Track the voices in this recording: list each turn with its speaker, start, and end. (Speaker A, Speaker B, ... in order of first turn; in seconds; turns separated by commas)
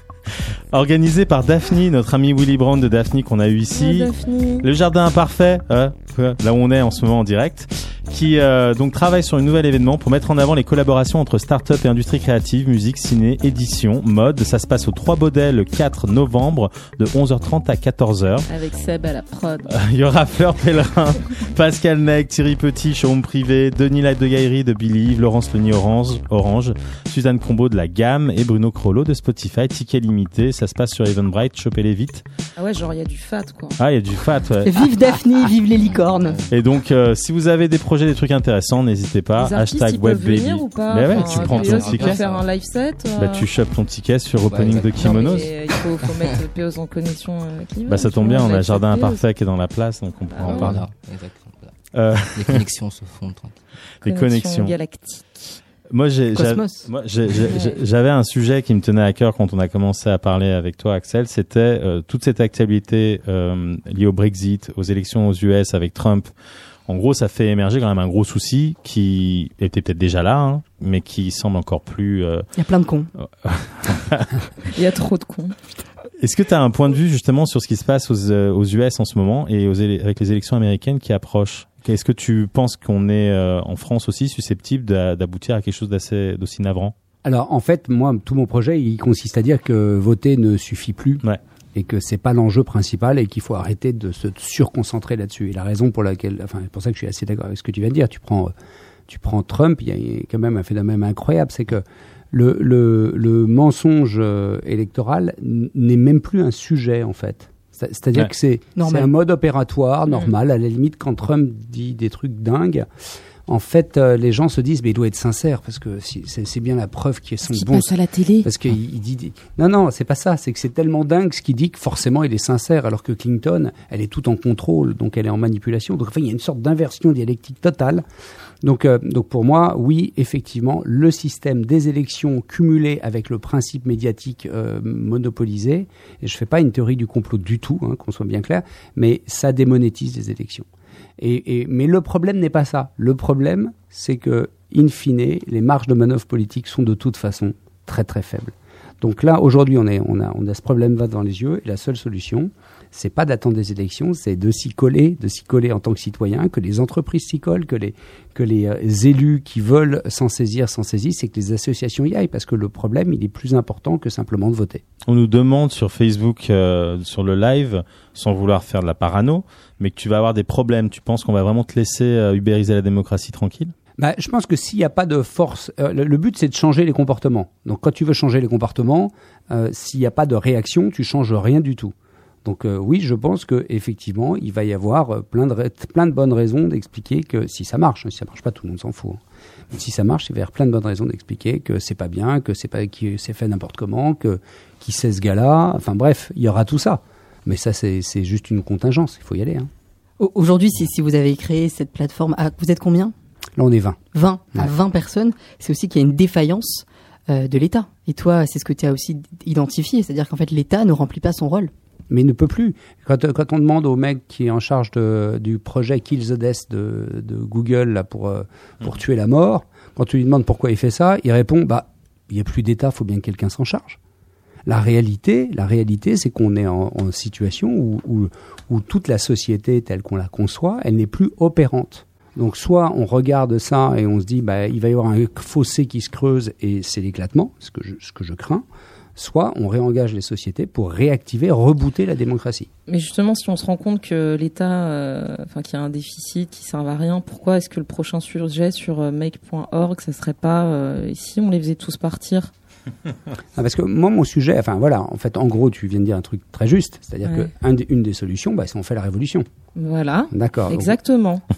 Speaker A: 0.3-18.4, Speaker B: 3.7-4.7, Speaker B: 18.5-19.7, Speaker A: 19.7-32.2, Speaker B: 32.6-33.8, Speaker A: 33.8-34.9, Speaker C: 34.6-36.4, Speaker D: 35.8-36.5, Speaker A: 36.5-42.2, Speaker B: 39.4-43.5, Speaker D: 41.1-42.4, Speaker A: 43.2-45.5, Speaker D: 44.5-45.5, Speaker B: 45.0-49.2, Speaker A: 47.9-50.8, Speaker B: 50.3-50.8, Speaker D: 50.4-51.8, Speaker A: 51.9-52.6, Speaker D: 52.3-53.6, Speaker A: 54.0-54.8, Speaker B: 54.0-55.6, Speaker A: 55.9-66.3, Speaker C: 56.3-56.9, Speaker B: 57.5-57.8, Speaker A: 66.9-72.5, Speaker C: 72.5-73.1, Speaker A: 73.2-74.5, Speaker B: 74.7-75.5, Speaker A: 76.2-86.9, Speaker E: 87.2-91.2, Speaker E: 91.7-98.5, Speaker E: 99.1-112.8, Speaker C: 108.8-109.1, Speaker B: 110.1-110.3, Speaker E: 113.5-128.0, Speaker B: 117.4-118.5, Speaker E: 128.6-140.7, Speaker E: 141.2-164.8, Speaker A: 165.1-173.7, Speaker E: 174.0-189.2, Speaker E: 189.7-199.7, Speaker C: 200.2-203.1, Speaker E: 203.6-204.0, Speaker C: 204.1-211.7, Speaker E: 212.1-224.0, Speaker E: 224.7-238.6, Speaker E: 239.2-242.7, Speaker B: 242.9-252.5, Speaker E: 253.5-259.4, Speaker B: 257.2-257.5, Speaker B: 259.7-261.4, Speaker E: 260.3-261.0